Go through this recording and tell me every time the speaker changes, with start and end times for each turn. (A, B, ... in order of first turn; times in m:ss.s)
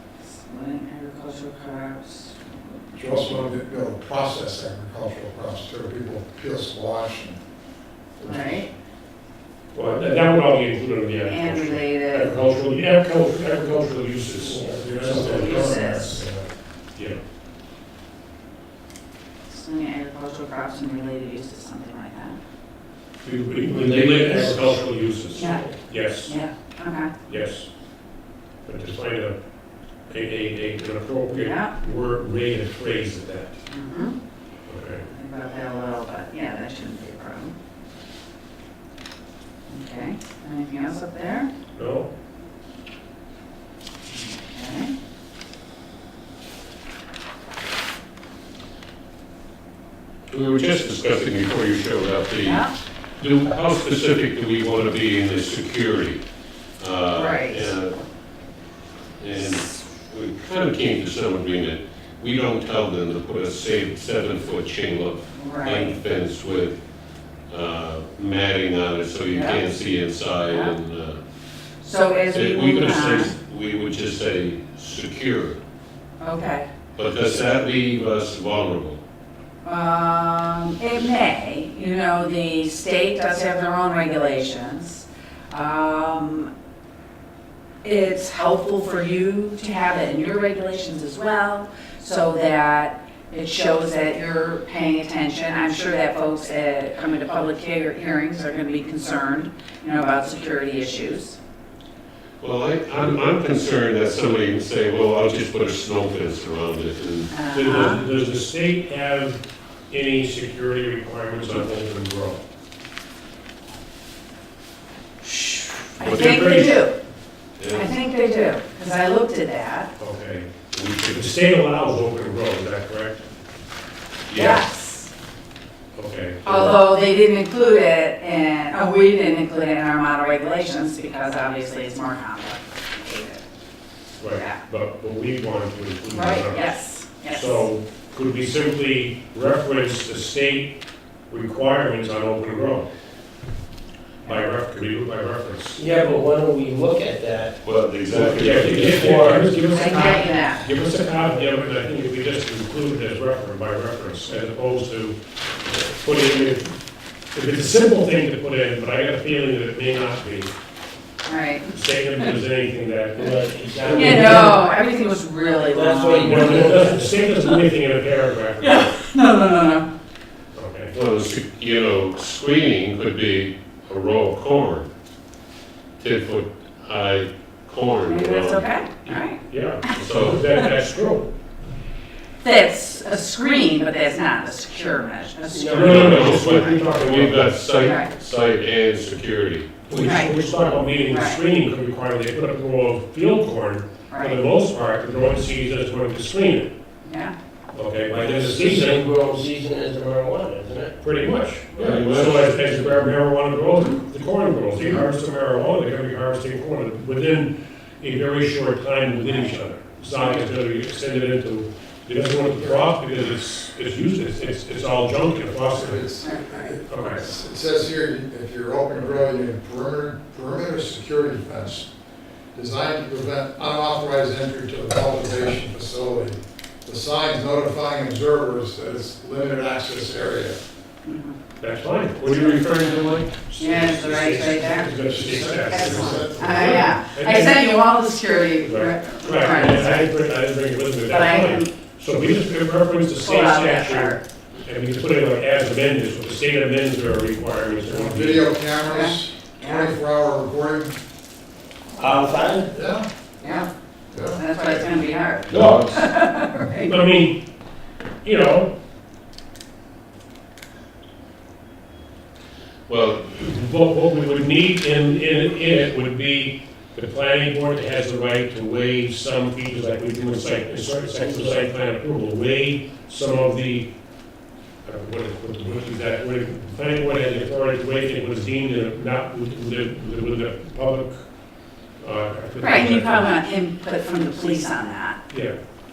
0:00.2-0:02.8 A
0:02.9-0:07.4 B
0:08.2-0:08.6 B
0:08.2-0:08.7 A
0:09.7-0:16.3 C
0:11.2-0:12.4 A
0:14.4-0:15.7 D
0:15.1-0:15.3 B
0:15.2-0:16.2 A
0:19.5-0:22.4 A
0:23.2-0:26.3 C
0:23.7-0:24.9 D
0:25.3-0:25.7 A
0:26.2-0:27.1 A
0:27.3-0:27.7 C
0:28.6-0:29.4 C
0:30.1-0:33.6 C
0:31.3-0:31.7 A
0:33.7-0:34.2 A
0:34.7-0:35.1 C
0:35.1-0:37.5 A
0:39.7-0:41.5 A
0:41.7-0:42.1 C
0:44.1-0:44.9 A
0:50.3-0:52.7 E
0:52.4-0:52.7 A
0:53.2-0:56.2 E
0:56.8-0:58.0 E
0:57.1-0:57.7 A
0:59.2-1:06.8 E
0:59.4-0:59.7 A
1:05.4-1:06.0 A
1:07.5-1:11.2 E
1:09.3-1:09.7 A
1:10.4-1:10.7 A
1:11.8-1:13.3 A
1:12.3-1:15.6 E
1:16.2-1:16.7 A
1:16.9-1:19.0 E
1:19.6-1:26.5 A
1:27.8-1:41.4 A
1:42.4-1:47.3 E
1:47.3-1:48.0 A
1:47.5-1:52.4 C
1:55.2-1:56.9 A
1:56.0-1:56.8 C
1:57.6-1:57.9 E
1:57.7-1:59.9 A
2:00.0-2:00.5 C
2:00.7-2:01.3 E
2:01.1-2:03.3 C
2:04.3-2:04.6 E
2:04.3-2:05.1 A
2:05.9-2:06.8 C
2:06.4-2:13.4 A
2:14.2-2:16.8 C
2:14.3-2:14.6 A
2:16.1-2:17.6 A
2:17.3-2:20.8 C
2:21.3-2:22.9 C
2:24.2-2:25.8 C
2:25.8-2:27.6 D
2:27.6-2:29.2 E
2:28.1-2:36.8 C
2:28.4-2:29.6 D
2:29.7-2:30.6 A
2:37.3-2:40.6 C
2:41.2-2:41.7 A
2:41.7-2:44.6 C
2:43.1-2:44.6 D
2:43.9-2:46.8 A
2:45.6-2:47.1 D
2:46.1-2:49.0 C
2:48.6-2:49.9 A
2:50.5-2:50.9 C
2:50.9-2:54.9 E
2:56.0-2:58.7 E
2:58.0-3:00.0 A
2:59.0-3:01.3 C
2:59.9-3:00.4 E
3:02.4-3:06.8 A
3:05.5-3:06.3 D
3:05.7-3:07.5 C
3:05.8-3:10.1 E
3:07.8-3:08.1 A
3:09.9-3:16.7 C
3:10.0-3:10.3 A
3:11.1-3:11.4 A
3:14.1-3:14.4 A
3:17.0-3:17.3 A
3:17.7-3:19.0 C
3:18.1-3:21.0 D
3:21.0-3:36.0 C
3:21.8-3:22.6 E
3:35.7-3:41.9 B
3:36.2-3:36.7 A
3:36.9-3:37.2 C
3:42.5-3:50.6 B
3:51.0-3:51.4 A
3:51.6-3:57.6 C
3:52.3-3:52.8 E
3:53.6-3:54.9 A
3:54.9-3:56.9 B
3:55.6-4:00.0 A
3:58.6-4:08.5 C
4:01.1-4:01.7 A
4:03.2-4:04.2 A
4:07.9-4:11.0 B
4:08.8-4:10.0 A
4:12.0-4:12.7 D
4:12.7-4:13.1 B
4:13.4-4:13.7 A
4:14.1-4:14.4 B
4:14.3-4:16.9 A
4:15.5-4:16.0 E
4:15.5-4:16.0 C
4:16.8-4:17.4 C
4:18.2-4:18.7 C
4:22.9-4:23.3 E
4:23.3-4:33.9 C
4:34.8-4:41.2 C
4:42.0-4:43.3 C
4:42.6-4:45.2 A
4:45.3-4:45.6 C